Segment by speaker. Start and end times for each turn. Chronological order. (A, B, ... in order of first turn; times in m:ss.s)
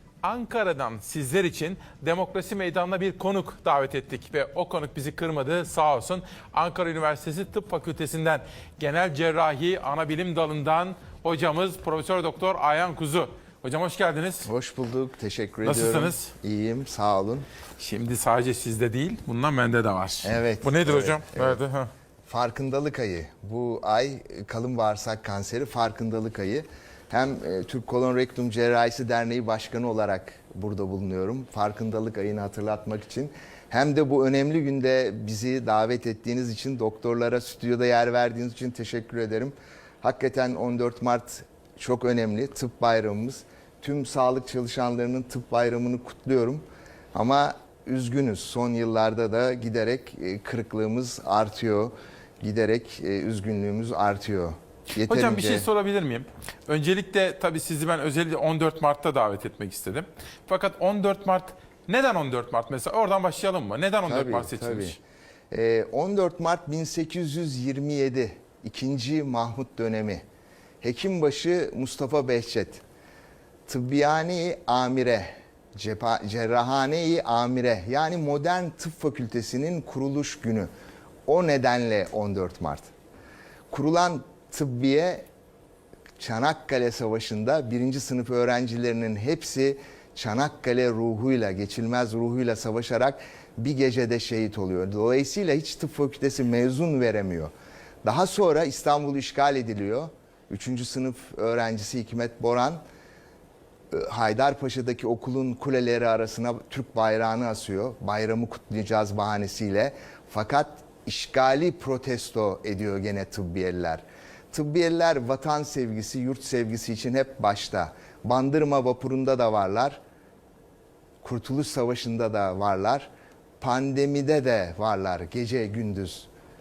0:00.2-0:14.5 A
0:14.4-0:17.5 B
0:15.6-0:16.3 A
0:17.8-0:21.9 A
0:20.2-0:21.6 B
0:22.3-0:55.7 B
0:55.1-1:05.0 A
1:04.0-1:05.0 B
1:05.5-1:10.2 B
1:10.8-1:12.8 B
1:13.7-1:20.7 B
1:21.3-1:22.9 B
1:23.7-1:25.2 B
1:26.2-1:37.5 B
1:38.0-1:42.8 B
1:43.9-2:00.0 B
2:01.2-2:06.3 B